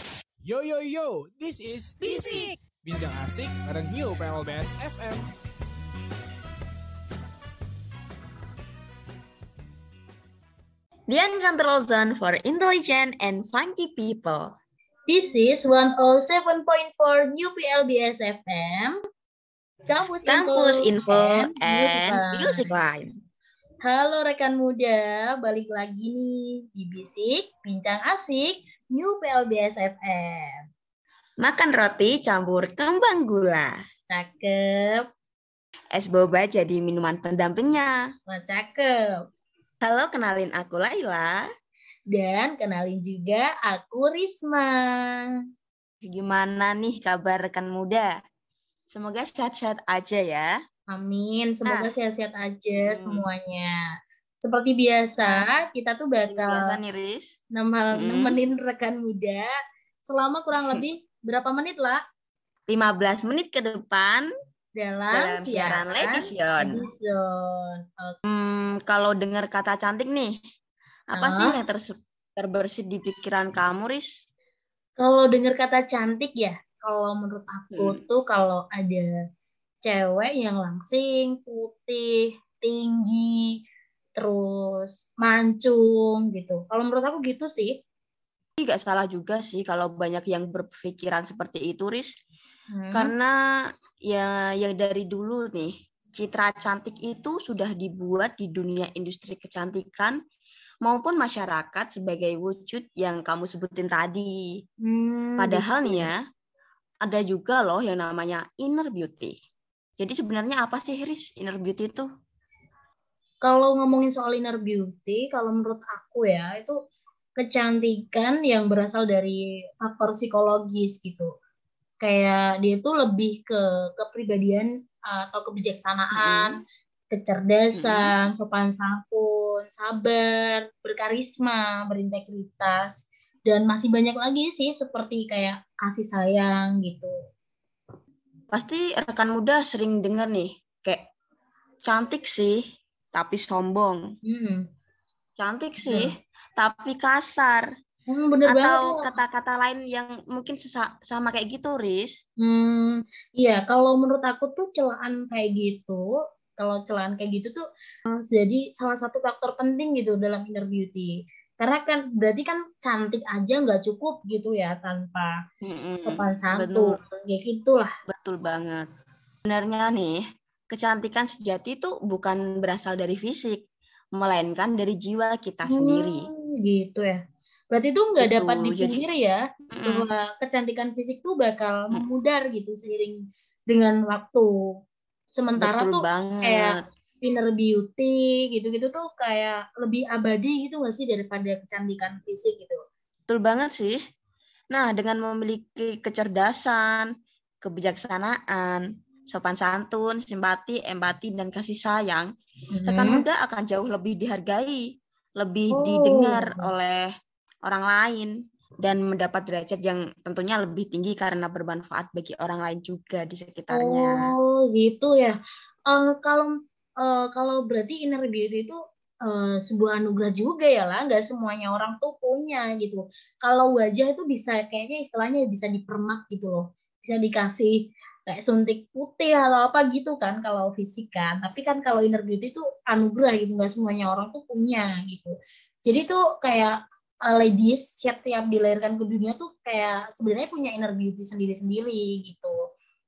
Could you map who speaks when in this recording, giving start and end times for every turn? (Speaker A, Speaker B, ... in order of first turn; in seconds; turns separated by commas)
Speaker A: 0.4-5.3, Speaker B: 11.1-14.5, Speaker C: 15.1-19.0, Speaker C: 19.9-22.7, Speaker B: 20.2-23.1, Speaker C: 23.8-30.6, Speaker B: 31.4-33.8, Speaker C: 34.1-35.0, Speaker B: 35.9-38.0, Speaker C: 38.3-39.2, Speaker B: 39.8-41.4, Speaker C: 42.1-45.3, Speaker B: 46.0-48.1, Speaker B: 48.9-50.5, Speaker C: 50.9-53.8, Speaker B: 51.7-51.9, Speaker B: 52.8-53.2, Speaker C: 54.4-56.8, Speaker B: 55.2-55.5, Speaker B: 56.3-57.3, Speaker C: 57.5-59.5, Speaker B: 57.9-58.4, Speaker C: 60.0-62.0, Speaker B: 60.5-60.8, Speaker B: 62.7-64.3, Speaker C: 64.7-68.2, Speaker B: 65.1-66.9, Speaker B: 68.2-70.3, Speaker B: 71.1-74.1, Speaker C: 71.2-71.5, Speaker C: 75.0-79.1, Speaker B: 77.7-78.0, Speaker C: 79.8-83.4, Speaker C: 84.1-87.7, Speaker B: 88.6-92.1, Speaker C: 92.7-93.1, Speaker B: 92.9-93.3, Speaker B: 94.1-100.2, Speaker B: 100.8-104.4, Speaker C: 104.8-106.1, Speaker B: 105.4-106.2, Speaker B: 107.0-109.3, Speaker B: 110.0-112.1, Speaker C: 113.4-116.8, Speaker C: 117.4-121.3, Speaker C: 122.0-126.6, Speaker B: 126.2-126.6, Speaker C: 127.1-137.1, Speaker B: 127.7-128.1, Speaker B: 138.5-141.1, Speaker B: 141.8-142.6, Speaker B: 143.1-144.0, Speaker C: 144.2-144.6, Speaker B: 145.4-147.7, Speaker C: 145.8-146.1, Speaker C: 148.1-149.1, Speaker B: 148.5-152.2, Speaker C: 152.4-165.4, Speaker B: 165.6-167.0, Speaker C: 166.1-167.9, Speaker B: 168.1-168.8, Speaker B: 169.4-173.6, Speaker B: 174.2-176.3, Speaker C: 175.7-177.2, Speaker C: 177.7-184.5, Speaker B: 178.2-179.0, Speaker B: 179.7-180.1, Speaker C: 185.3-192.8, Speaker B: 185.6-186.8, Speaker B: 193.3-194.0, Speaker B: 194.7-197.1, Speaker B: 197.6-202.3, Speaker C: 202.7-203.2, Speaker B: 202.9-204.8, Speaker B: 205.4-207.1, Speaker C: 205.7-206.7, Speaker B: 207.7-208.3, Speaker B: 208.8-214.1, Speaker C: 213.7-215.4, Speaker C: 215.9-216.5, Speaker C: 217.0-227.7, Speaker C: 228.2-236.8, Speaker C: 237.3-242.5